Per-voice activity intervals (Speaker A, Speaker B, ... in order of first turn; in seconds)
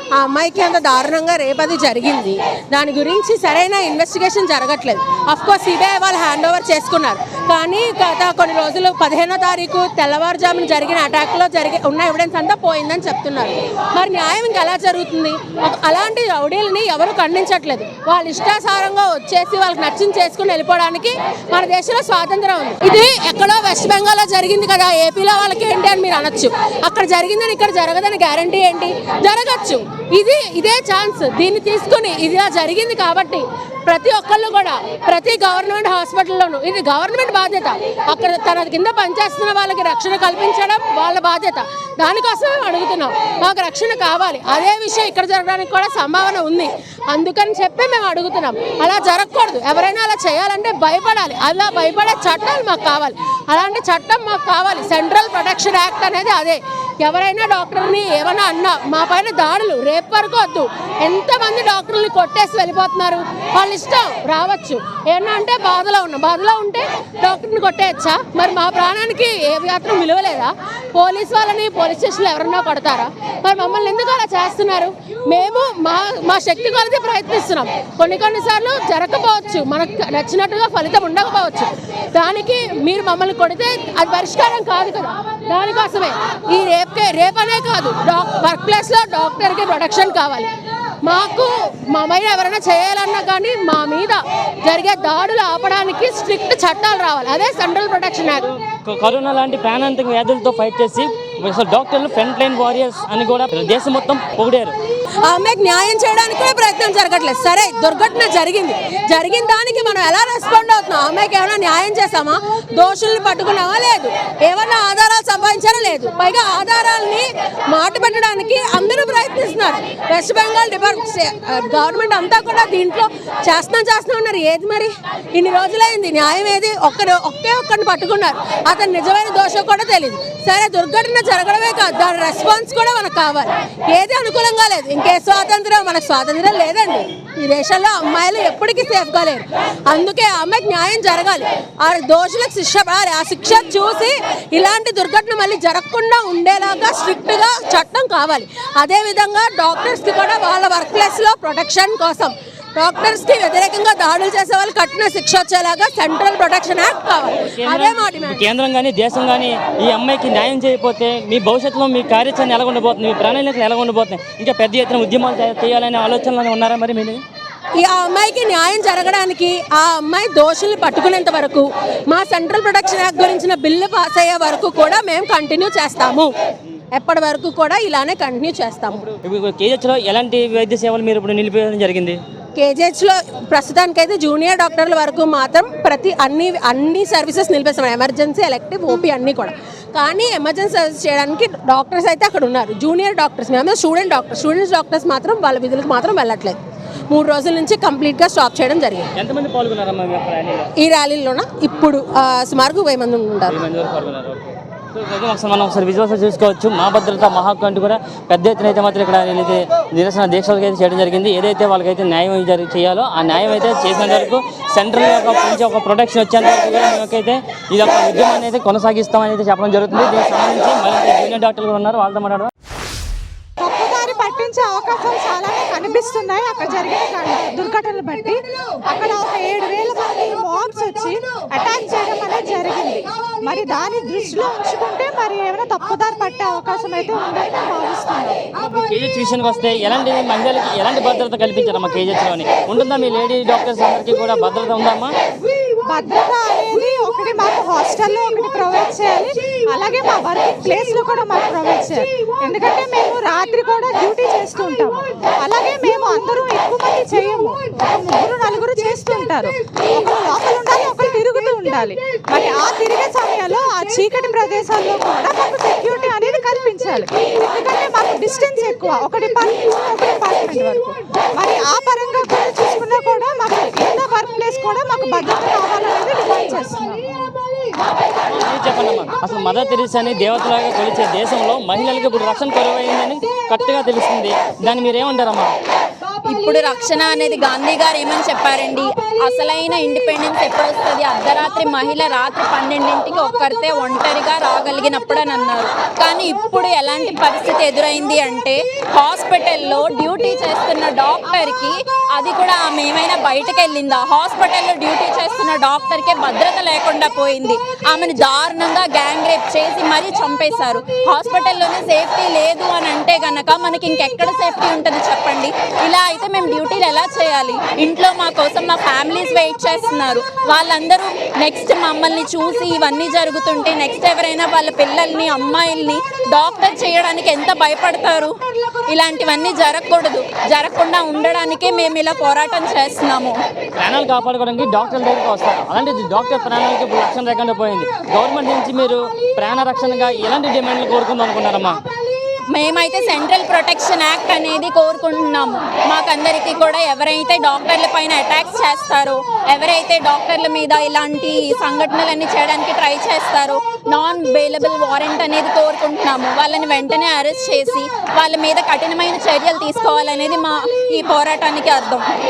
Speaker A: 0.2-90.5, 91.1-98.5, 105.3-158.5, 167.8-176.3, 176.9-179.1, 182.6-196.6, 197.1-199.1, 200.8-203.6
Speaker B: 98.8-104.8, 157.3-167.2, 179.2-182.2, 199.2-200.7, 203.5-222.5, 238.6-245.1, 278.3-285.5, 333.8-341.8
Speaker C: 223.6-238.4, 245.9-277.0
Speaker D: 286.2-328.3, 328.9-333.4, 342.5-362.1